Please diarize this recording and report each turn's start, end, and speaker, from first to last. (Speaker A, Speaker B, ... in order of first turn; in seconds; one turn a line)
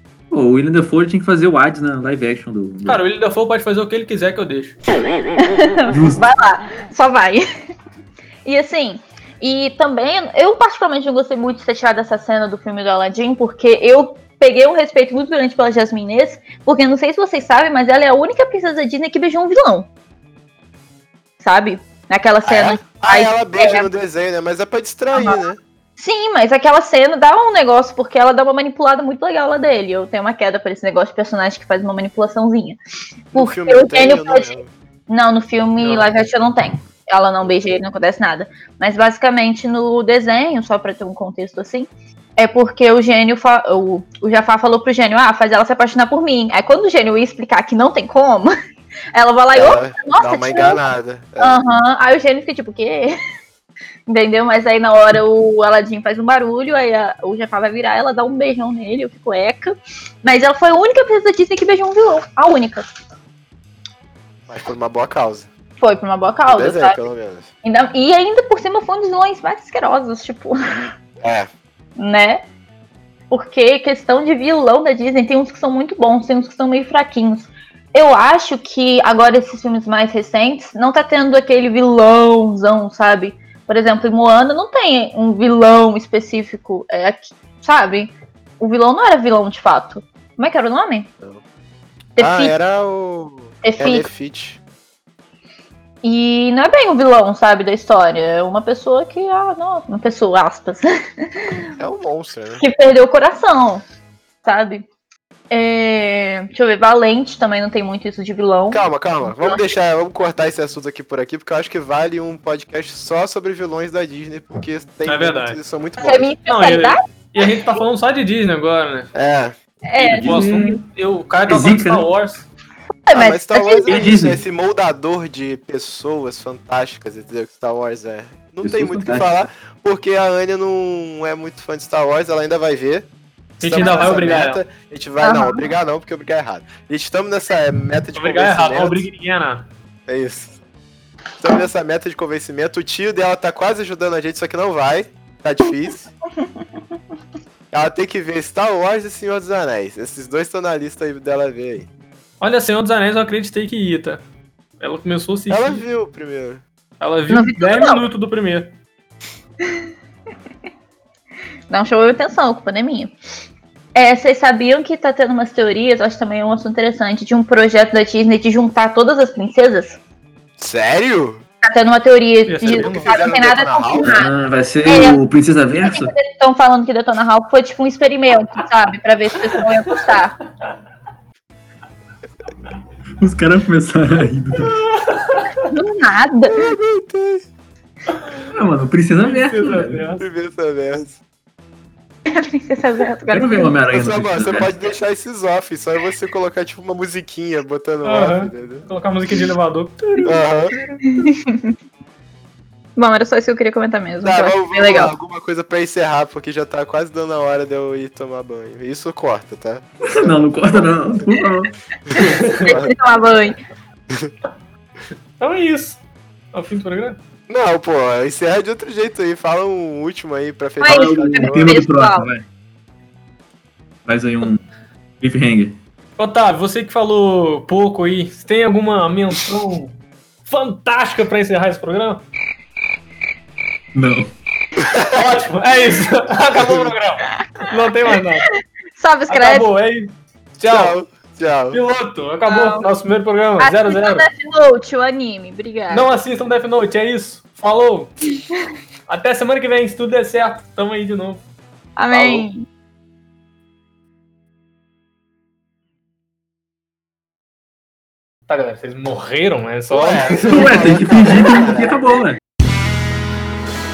Speaker A: 0.3-3.0
Speaker B: 2.8-4.8
Speaker C: 5.4-7.5
Speaker A: 5.9-6.2
Speaker C: 8.4-19.9
Speaker C: 21.4-23.9
Speaker D: 22.4-25.6
Speaker C: 25.1-25.4
Speaker C: 26.0-32.8
Speaker D: 33.3-34.7
Speaker C: 33.3-48.5
Speaker B: 35.8-36.2
Speaker C: 49.1-50.8
Speaker D: 49.5-51.6
Speaker C: 51.4-53.2
Speaker C: 54.1-62.9
Speaker D: 64.5-65.5
Speaker C: 65.8-67.0
Speaker D: 66.5-67.5
Speaker C: 67.6-70.9
Speaker D: 71.2-71.5
Speaker C: 72.0-72.4
Speaker C: 73.3-91.1
Speaker C: 92.2-92.5
Speaker D: 92.2-94.6
Speaker C: 93.6-94.1
Speaker C: 96.0-101.7
Speaker D: 101.8-102.6
Speaker C: 102.6-103.8
Speaker C: 104.4-104.8
Speaker C: 105.5-109.6
Speaker D: 108.7-116.3
Speaker B: 115.0-115.6
Speaker C: 116.0-117.0
Speaker B: 116.4-119.1
Speaker D: 119.1-119.5
Speaker C: 119.9-120.8
Speaker A: 120.0-120.7
Speaker B: 120.0-122.5
Speaker A: 121.5-122.1
Speaker C: 123.0-124.0
Speaker D: 123.1-133.1
Speaker A: 123.9-124.4
Speaker A: 128.6-129.3
Speaker B: 133.6-134.6
Speaker D: 133.6-139.1
Speaker C: 133.8-134.2
Speaker C: 135.2-135.6
Speaker B: 138.1-139.7
Speaker D: 140.1-140.6
Speaker D: 141.4-146.1
Speaker D: 147.7-151.9
Speaker B: 152.4-154.2
Speaker B: 154.8-155.8
Speaker D: 155.5-156.6
Speaker B: 157.0-158.7
Speaker C: 157.3-158.1
Speaker C: 161.7-163.1
Speaker C: 163.9-170.0
Speaker D: 170.6-171.4
Speaker C: 171.6-174.3
Speaker B: 172.5-173.2
Speaker D: 172.7-174.2
Speaker A: 174.0-176.1
Speaker C: 174.8-175.2
Speaker C: 175.8-180.3
Speaker A: 183.2-184.8
Speaker B: 184.9-185.6
Speaker C: 185.7-186.8
Speaker D: 186.5-187.4
Speaker A: 188.5-190.0
Speaker B: 189.2-190.2
Speaker D: 190.2-191.2
Speaker C: 192.3-193.7
Speaker A: 193.3-194.7
Speaker D: 193.9-198.9
Speaker B: 198.0-200.4
Speaker D: 200.2-200.7
Speaker C: 201.0-201.7
Speaker C: 202.9-205.1
Speaker D: 204.2-211.0
Speaker A: 210.1-211.7
Speaker D: 212.1-213.0
Speaker C: 212.1-213.6
Speaker B: 212.2-212.7
Speaker B: 215.4-216.0
Speaker B: 216.5-217.2
Speaker D: 217.5-221.8
Speaker C: 220.8-222.3
Speaker A: 220.8-222.4
Speaker A: 224.1-224.6
Speaker A: 225.2-225.8
Speaker B: 226.2-229.9
Speaker B: 230.5-232.2
Speaker A: 233.9-234.3
Speaker D: 234.8-235.2
Speaker B: 235.0-238.4
Speaker D: 236.5-236.9
Speaker C: 237.3-237.7
Speaker C: 239.0-239.7
Speaker B: 239.3-240.9
Speaker D: 240.6-241.8
Speaker B: 241.7-244.3
Speaker C: 242.5-242.9
Speaker C: 243.6-246.1
Speaker B: 245.9-248.2
Speaker B: 249.1-251.4
Speaker C: 252.0-252.6
Speaker D: 252.1-252.4
Speaker B: 258.5-260.9
Speaker D: 259.9-262.0
Speaker A: 260.4-262.4